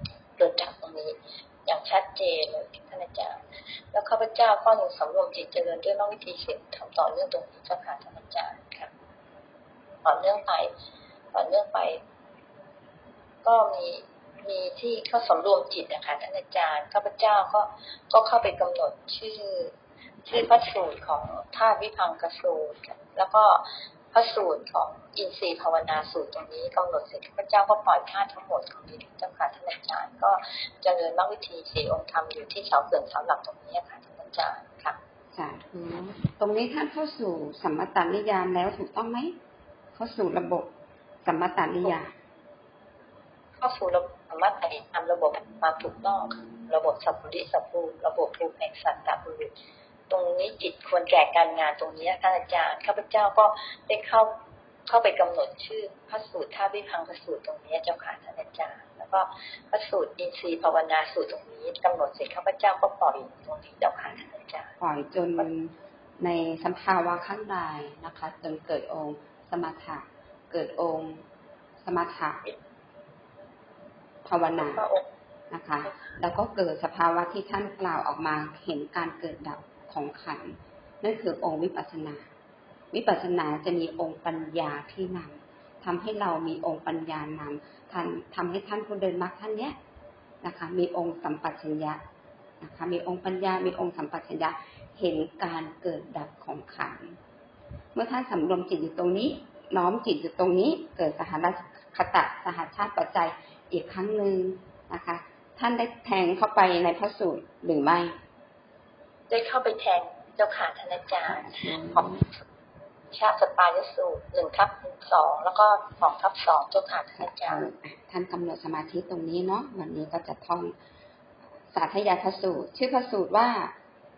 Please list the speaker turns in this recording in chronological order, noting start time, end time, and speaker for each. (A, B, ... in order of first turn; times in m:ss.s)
0:00.4-0:03.4 A
0:03.9-0:08.9 A
0:10.0-0:10.7 A
0:11.3-0:12.0 A
0:13.4-0:35.0 A
0:35.3-0:39.4 B
0:39.9-0:40.7 B
0:41.2-0:42.1 B
0:43.6-0:49.5 A
0:50.1-0:54.3 A
0:54.9-1:04.7 A
1:04.8-1:11.2 B
1:11.8-1:12.4 B
1:14.2-1:14.8 B
1:14.5-1:15.1 A
1:15.5-1:22.3 B
1:15.9-1:16.2 A
1:22.9-1:29.8 B
1:30.4-1:32.0 B
1:32.6-1:37.2 B
1:37.9-1:48.2 B
1:49.3-1:52.2 A
1:51.4-1:52.3 B
1:53.1-1:57.6 A
1:57.2-2:00.8 B
2:01.7-2:03.8 B